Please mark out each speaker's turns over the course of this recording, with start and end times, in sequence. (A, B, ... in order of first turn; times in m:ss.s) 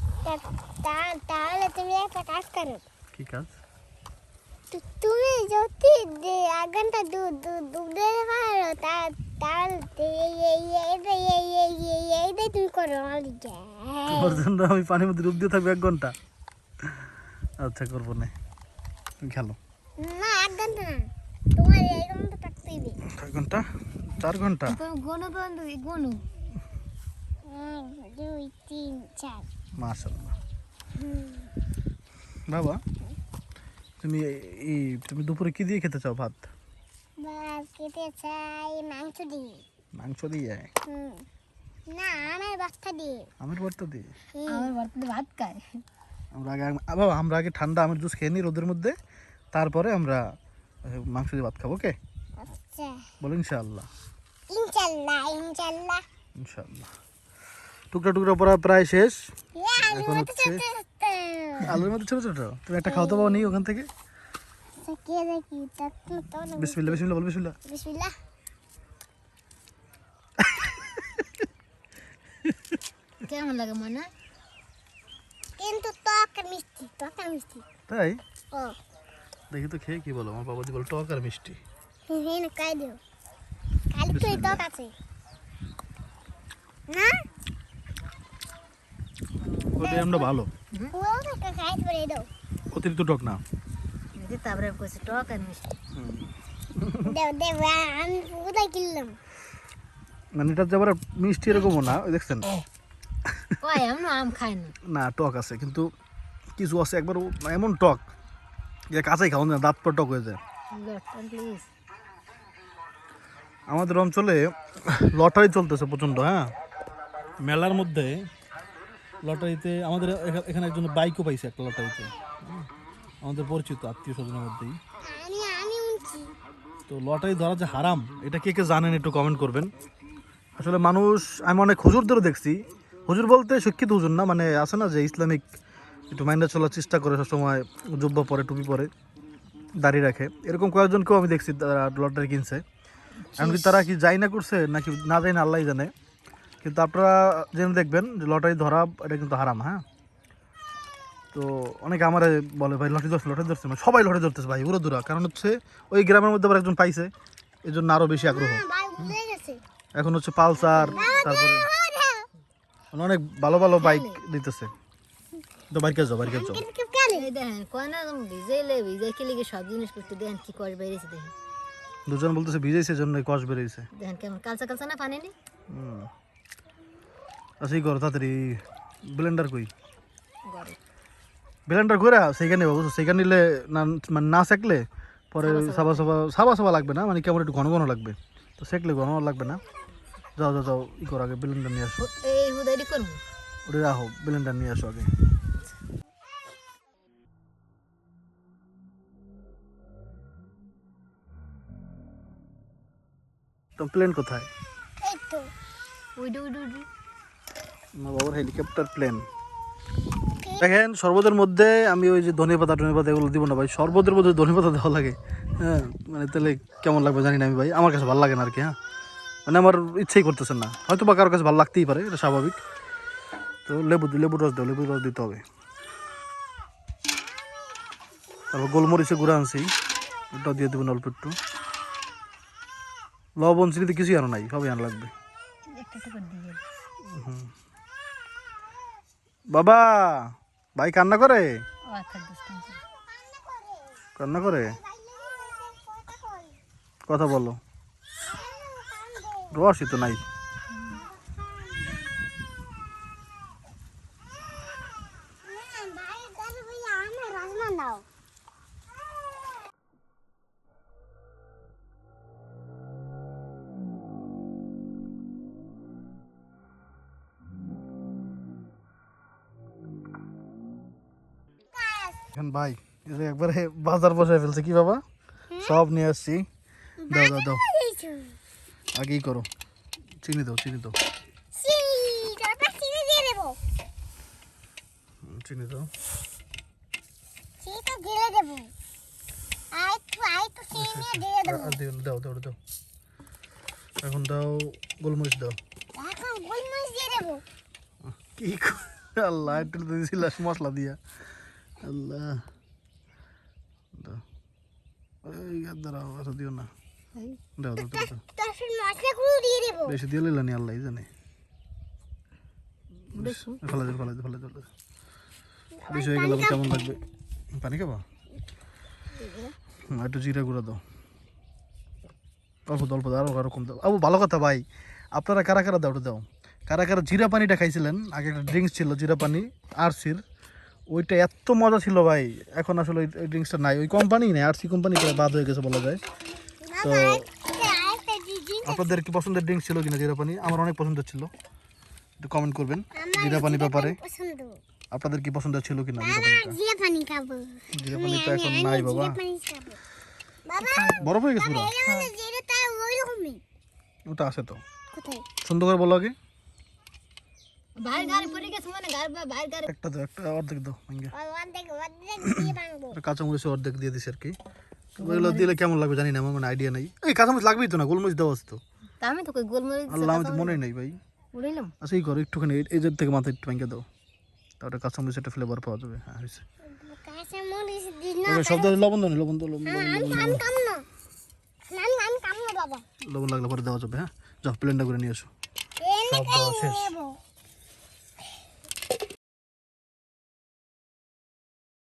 0:00.2-0:02.8 A
0:03.1-0:03.5 B
0:04.7-0:14.4 A
0:14.1-0:16.1 B
0:17.6-0:18.3 B
0:19.2-0:19.6 B
0:20.0-0:23.0 A
0:23.1-0:24.8 B
0:24.6-0:26.2 C
0:27.5-0:29.4 A
0:29.8-0:30.3 B
0:31.0-0:31.5 A
0:32.5-0:32.8 B
0:34.0-0:36.5 B
0:37.2-0:39.6 A
0:40.0-0:40.7 B
0:40.9-0:41.2 A
0:41.9-0:43.3 A
0:43.4-0:44.1 B
0:44.4-0:44.7 A
0:44.5-0:45.6 C
0:46.3-0:49.0 B
0:49.5-0:50.3 B
0:50.8-0:52.0 B
0:52.4-0:53.0 A
0:53.2-0:53.9 B
0:54.5-0:56.0 A
0:56.4-0:56.9 B
0:57.9-0:59.3 B
0:59.6-1:01.7 A
0:59.8-1:00.6 B
1:01.6-1:03.9 B
1:02.8-1:03.6 A
1:04.8-1:07.0 A
1:06.6-1:07.6 B
1:07.6-1:08.1 A
1:10.4-1:11.3 B
1:13.2-1:14.1 C
1:15.6-1:17.6 A
1:17.9-1:18.2 B
1:19.5-1:21.6 B
1:22.1-1:23.0 A
1:23.9-1:24.9 A
1:24.1-1:24.6 B
1:26.9-1:27.2 A
1:29.7-1:30.5 B
1:29.8-1:30.3 A
1:30.9-1:32.3 A
1:32.7-1:33.4 B
1:34.2-1:35.7 C
1:35.9-1:37.1 B
1:37.0-1:39.2 A
1:40.3-1:42.5 B
1:43.6-1:44.7 C
1:44.8-1:45.9 B
1:46.6-1:48.0 B
1:48.9-1:50.4 B
1:50.7-1:51.7 C
1:53.7-1:56.5 B
1:57.4-1:58.2 B
1:59.2-2:02.7 B
2:03.2-2:04.8 B
2:05.0-2:06.3 A
2:06.9-2:09.7 B
2:10.6-2:15.4 B
2:16.1-2:18.9 B
2:19.8-2:22.6 B
2:23.3-2:23.8 C
2:23.4-2:25.9 B
2:26.6-2:29.8 B
2:31.3-2:37.1 B
2:37.6-2:39.1 B
2:38.2-2:39.6 A
2:40.0-2:41.7 B
2:40.6-2:41.3 C
2:40.7-2:42.3 A
2:42.9-2:44.7 B
2:43.8-2:44.2 C
2:45.7-2:46.6 B
2:46.2-2:47.3 A
2:47.1-2:51.3 C
2:52.0-2:53.9 B
2:54.0-2:55.3 C
2:55.7-2:56.1 B
2:57.6-2:59.7 B
3:00.5-3:00.8 C
3:01.7-3:09.6 B
3:05.4-3:06.0 C
3:10.4-3:12.1 B
3:12.0-3:13.2 C
3:13.6-3:15.1 B
3:23.8-3:24.5 B
3:25.0-3:25.5 A
3:26.2-3:26.9 C
3:28.0-3:29.2 B
3:30.4-3:30.8 A
3:30.6-3:38.7 B
3:39.4-3:42.6 B
3:43.6-3:45.4 B
3:48.5-3:49.7 B
3:50.3-3:51.4 B
3:53.4-3:55.1 B
3:55.7-3:56.6 C
3:57.1-3:57.5 B
3:59.5-4:01.6 B
4:01.9-4:02.8 C
4:02.9-4:06.6 A
4:04.2-4:04.8 B
4:07.1-4:07.6 B
4:08.2-4:09.6 A
4:09.5-4:10.2 B
4:10.7-4:11.0 C
4:10.9-4:12.1 A
4:15.4-4:18.0 A
4:31.8-4:32.2 A
4:32.3-4:35.0 B
4:35.5-4:35.8 A
4:35.6-4:36.4 B
4:37.0-4:38.3 A
4:37.1-4:37.6 B
4:38.9-4:39.5 B
4:40.2-4:41.0 B
4:41.5-4:43.6 A
4:45.2-4:45.9 B
4:47.6-4:48.7 A
4:49.7-4:51.8 A
4:50.7-4:52.6 B
4:54.0-4:55.6 B
4:56.0-4:57.4 A
4:58.0-5:01.0 B
5:01.8-5:02.4 B
5:03.9-5:04.2 B
5:05.2-5:06.7 B
5:07.6-5:08.2 B
5:07.8-5:10.0 A
5:09.8-5:11.1 B
5:13.1-5:14.7 B
5:13.1-5:13.8 C
5:15.8-5:16.7 A
5:15.9-5:17.0 B
5:17.5-5:18.0 B
5:19.9-5:20.8 B
5:22.7-5:30.2 B
5:30.9-5:36.0 B
5:36.6-5:38.8 A
5:36.8-5:37.2 B
5:38.6-5:41.3 B
5:42.2-5:44.0 B
5:42.9-5:44.6 A
5:44.9-5:46.6 B
5:46.0-5:49.8 A
5:47.7-5:49.2 B
5:50.4-5:53.4 A
5:50.6-5:51.2 C
5:51.0-5:51.7 B
5:54.1-5:54.6 B
5:54.9-5:55.3 A
5:55.4-5:56.1 B
5:57.8-5:59.7 C
5:57.9-5:58.5 A
5:59.6-6:01.1 B
6:01.1-6:03.0 A
6:02.2-6:04.4 B
6:05.0-6:08.6 B
6:05.0-6:05.5 C
6:09.0-6:10.6 C
6:09.9-6:11.0 B
6:11.3-6:11.7 C
6:11.8-6:13.8 B
6:14.6-6:16.4 B
6:16.7-6:18.7 A
6:18.2-6:20.4 B
6:19.6-6:20.8 A
6:21.7-6:22.8 A
6:23.0-6:25.3 B
6:25.8-6:27.2 A
6:26.0-6:27.0 B